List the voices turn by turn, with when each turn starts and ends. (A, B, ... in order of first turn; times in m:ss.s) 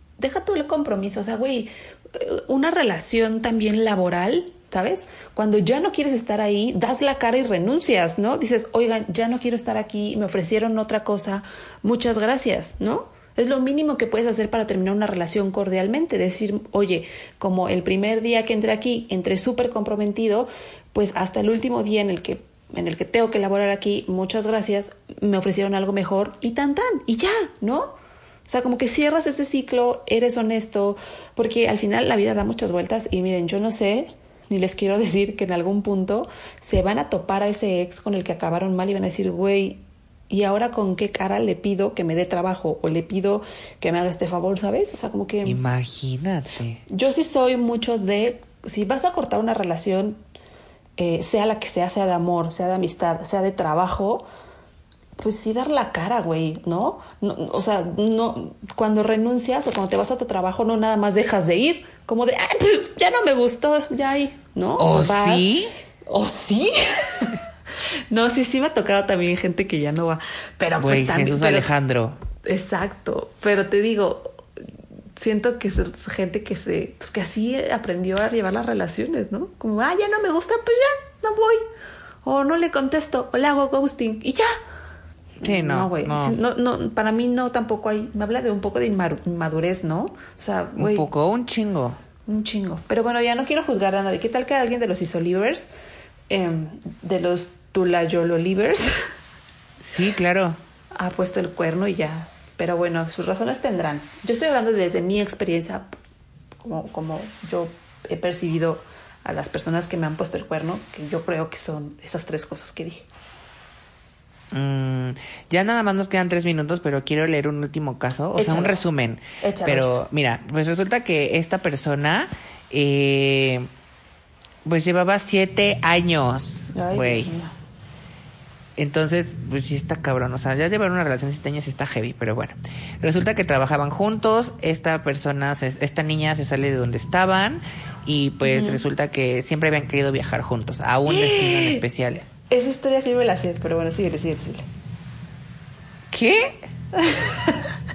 0:00.2-0:27.9 A
0:28.4-0:45.6 A
0:45.4-0:46.8 B
0:46.9-0:50.2 A
0:51.0-0:54.2 A
0:55.2-1:05.5 A
1:04.8-1:05.7 B
1:06.1-1:07.4 A
1:08.1-1:11.7 A
1:10.8-1:12.2 B
1:12.4-1:14.4 A
1:15.2-1:21.6 A
1:22.2-1:24.5 A
1:25.4-1:26.4 B
1:25.4-1:31.0 A
1:30.8-1:32.0 B
1:32.2-1:35.7 A
1:36.3-1:39.1 A
1:39.8-1:40.6 B
1:41.0-1:45.9 A
1:46.6-1:53.0 A
1:54.5-2:03.7 B
1:58.4-1:58.8 A
1:59.4-2:00.0 A
2:04.6-2:07.3 B
2:06.7-2:07.5 A
2:08.8-2:22.2 B
2:18.4-2:18.8 A
2:21.0-2:21.8 A
2:22.5-2:24.6 A
2:26.1-2:26.6 B
2:26.9-2:27.7 A